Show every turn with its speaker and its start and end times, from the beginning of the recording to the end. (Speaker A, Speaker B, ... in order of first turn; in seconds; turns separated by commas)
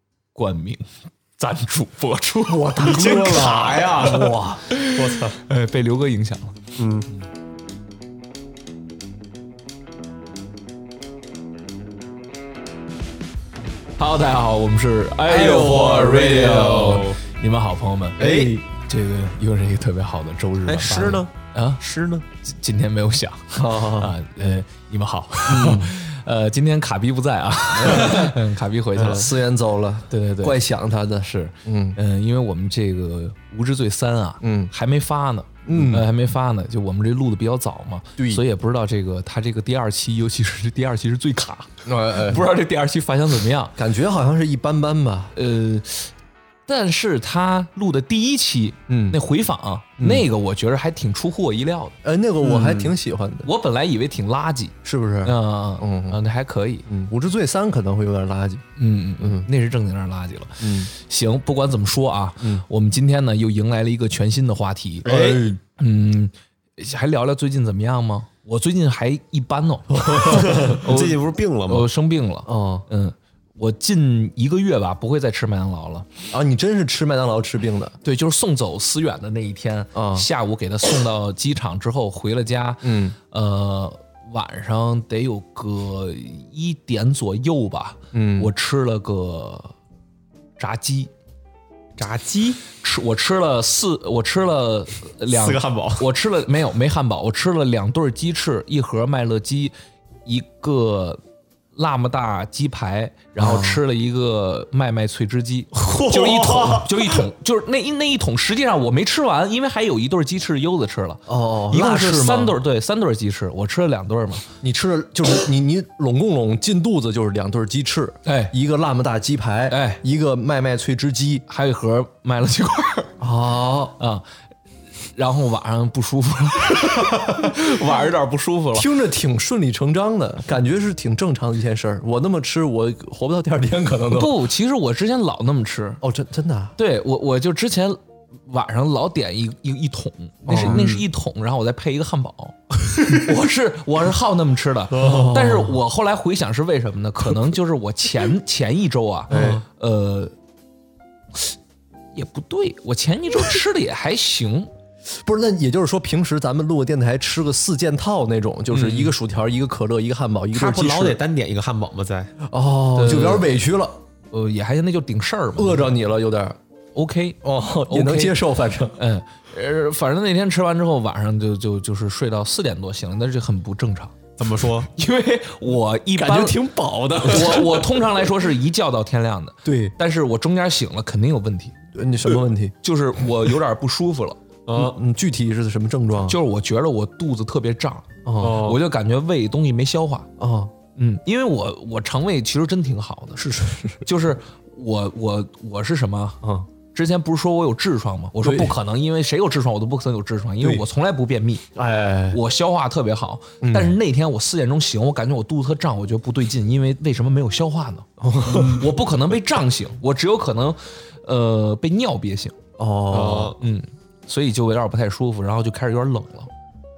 Speaker A: 0.3-0.9, Speaker A: 1.4-3.4, Speaker B: 2.5-4.7, Speaker C: 2.8-5.4, Speaker A: 4.7-6.6, Speaker C: 6.8-7.1, Speaker A: 14.0-21.8, Speaker B: 15.3-16.5, Speaker C: 15.4-17.2, Speaker C: 18.2-18.5, Speaker B: 18.2-18.5, Speaker C: 20.6-22.2, Speaker A: 22.4-29.3, Speaker B: 23.5-24.1, Speaker B: 25.5-25.9, Speaker B: 27.9-28.2, Speaker C: 29.0-29.2, Speaker B: 29.0-32.0, Speaker A: 30.1-30.6, Speaker A: 31.2-43.8, Speaker B: 34.4-34.7, Speaker B: 35.6-36.0, Speaker B: 41.8-42.5, Speaker B: 43.8-45.3, Speaker A: 45.3-46.1, Speaker A: 46.7-52.0, Speaker B: 48.9-49.2, Speaker B: 50.0-50.3, Speaker B: 52.0-53.5, Speaker C: 52.4-52.9, Speaker A: 53.4-56.9, Speaker B: 54.8-56.2, Speaker B: 56.9-58.6, Speaker A: 58.8-76.1, Speaker B: 59.2-59.5, Speaker B: 60.6-60.9, Speaker B: 62.4-62.6, Speaker C: 65.0-65.5, Speaker B: 70.1-70.6, Speaker C: 70.2-71.9, Speaker B: 72.5-72.9, Speaker B: 76.3-78.0, Speaker A: 78.0-89.7, Speaker B: 79.9-80.3, Speaker B: 82.8-83.1, Speaker B: 88.1-88.5, Speaker A: 90.6-91.1, Speaker C: 92.0-92.6, Speaker A: 92.8-99.7, Speaker C: 95.3-96.0, Speaker A: 100.2-101.2, Speaker A: 101.7-114.5, Speaker B: 103.4-103.8, Speaker C: 105.7-107.2, Speaker B: 111.3-112.5, Speaker B: 114.6-121.5, Speaker A: 118.2-118.5, Speaker A: 119.7-120.0, Speaker A: 121.5-123.2, Speaker B: 123.2-124.0, Speaker A: 124.0-124.2, Speaker A: 125.1-128.9, Speaker B: 128.7-134.5, Speaker A: 134.1-136.0, Speaker B: 136.0-136.8, Speaker A: 136.8-150.3, Speaker B: 140.5-141.0, Speaker C: 144.9-145.4, Speaker B: 145.0-145.8, Speaker B: 149.3-149.6, Speaker C: 149.3-149.6, Speaker A: 152.1-154.7, Speaker B: 155.1-161.2, Speaker A: 158.7-159.1, Speaker C: 160.5-162.3, Speaker B: 162.4-164.0, Speaker A: 162.9-163.5, Speaker A: 164.3-165.9, Speaker B: 165.6-166.6, Speaker A: 166.9-168.3, Speaker B: 167.4-169.0, Speaker A: 168.9-174.1, Speaker C: 174.4-174.9, Speaker A: 174.9-176.6, Speaker B: 176.2-178.3, Speaker A: 177.2-181.8, Speaker B: 179.6-179.9, Speaker B: 181.9-182.7, Speaker A: 182.8-184.4, Speaker C: 184.7-185.0, Speaker B: 184.7-186.4, Speaker A: 186.2-190.3, Speaker B: 188.2-188.7, Speaker C: 188.4-188.8, Speaker B: 190.4-190.7, Speaker A: 190.9-193.4, Speaker B: 193.4-194.0, Speaker A: 194.0-196.4, Speaker B: 196.4-196.7, Speaker A: 196.9-201.7, Speaker B: 198.4-198.8, Speaker B: 201.7-202.4, Speaker A: 202.3-212.5, Speaker B: 203.6-203.9, Speaker B: 208.2-208.9, Speaker C: 208.5-208.8, Speaker B: 212.8-213.6, Speaker C: 213.1-213.6, Speaker A: 213.6-216.5